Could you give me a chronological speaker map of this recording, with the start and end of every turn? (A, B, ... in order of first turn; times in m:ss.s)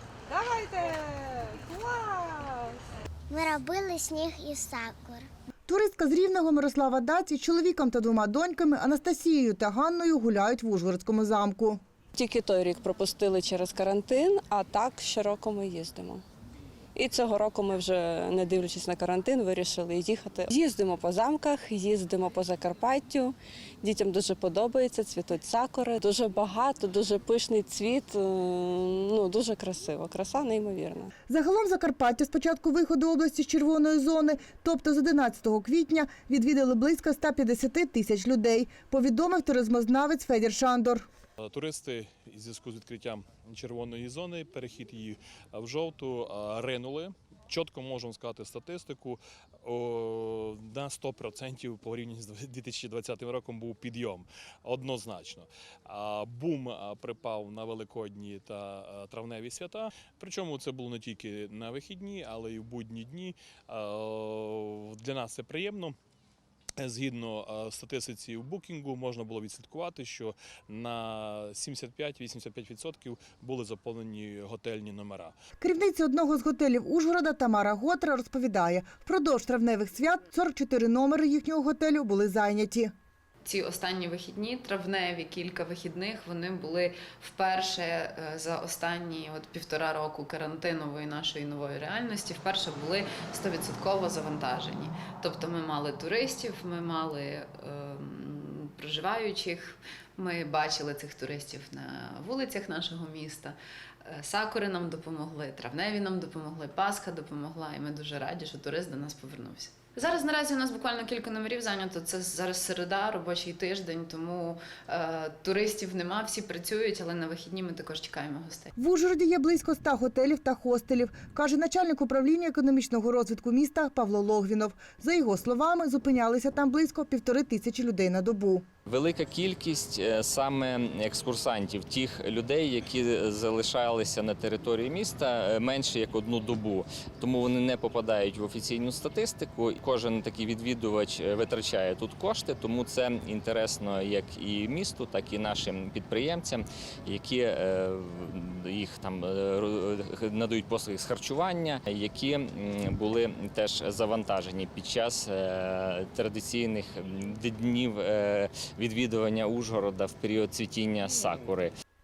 0:00.3-0:02.8 A
0:03.3-0:05.3 B
0:05.7-0:11.8 C
0:12.1-0:16.2 A
0:16.9-0:31.1 A
0:31.3-0:41.0 C
0:41.4-1:05.9 D
1:06.8-1:15.3 D
1:15.6-1:22.9 C
1:23.4-1:58.7 E
1:58.8-2:08.6 C
2:08.8-2:41.7 F